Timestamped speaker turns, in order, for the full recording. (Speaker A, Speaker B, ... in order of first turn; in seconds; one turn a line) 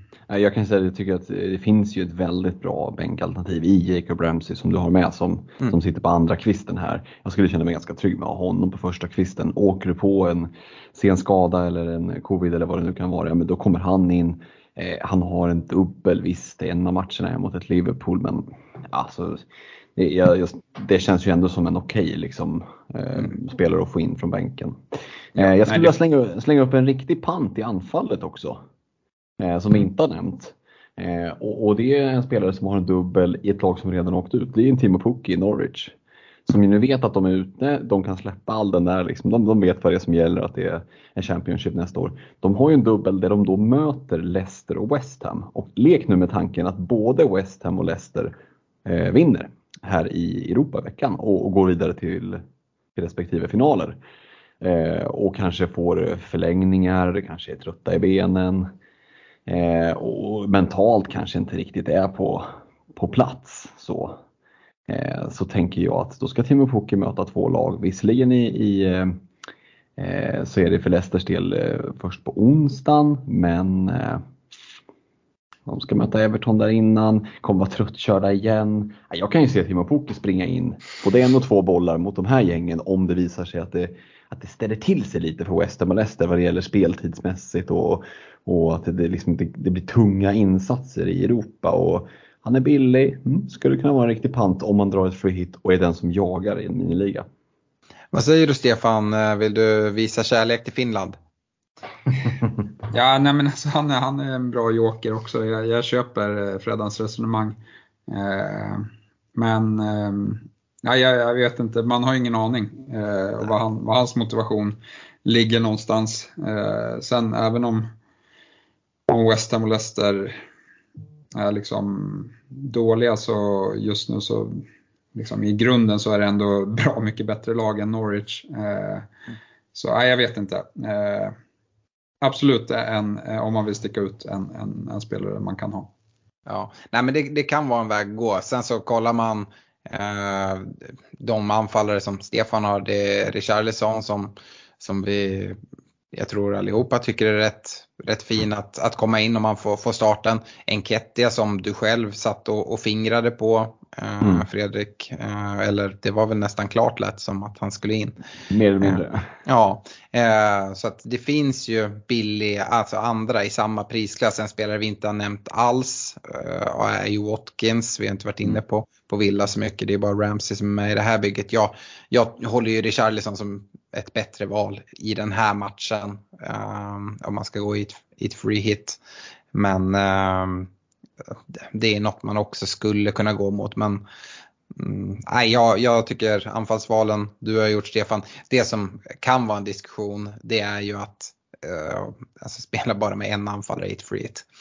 Speaker A: 0.3-24.8
Speaker A: 25.3-28.6
Speaker B: 25.6-25.9
Speaker A: 29.4-35.9
Speaker A: 36.5-48.3
Speaker A: 48.9-52.4
Speaker A: 53.0-54.0
Speaker A: 54.6-58.7
Speaker A: 59.5-64.2
Speaker A: 64.9-69.2
Speaker A: 70.0-74.2
Speaker A: 75.7-97.3
Speaker C: 98.1-101.2
Speaker B: 102.9-117.9
Speaker B: 119.1-120.4
Speaker B: 121.3-124.6
Speaker B: 125.1-129.1
Speaker B: 129.7-131.4
Speaker B: 132.2-135.9
Speaker C: 136.5-145.6
Speaker C: 146.1-158.2
Speaker A: 154.2-154.4
Speaker A: 158.5-159.3
Speaker C: 158.8-179.0
Speaker C: 179.5-180.7
Speaker C: 181.6-184.0
Speaker C: 184.7-194.4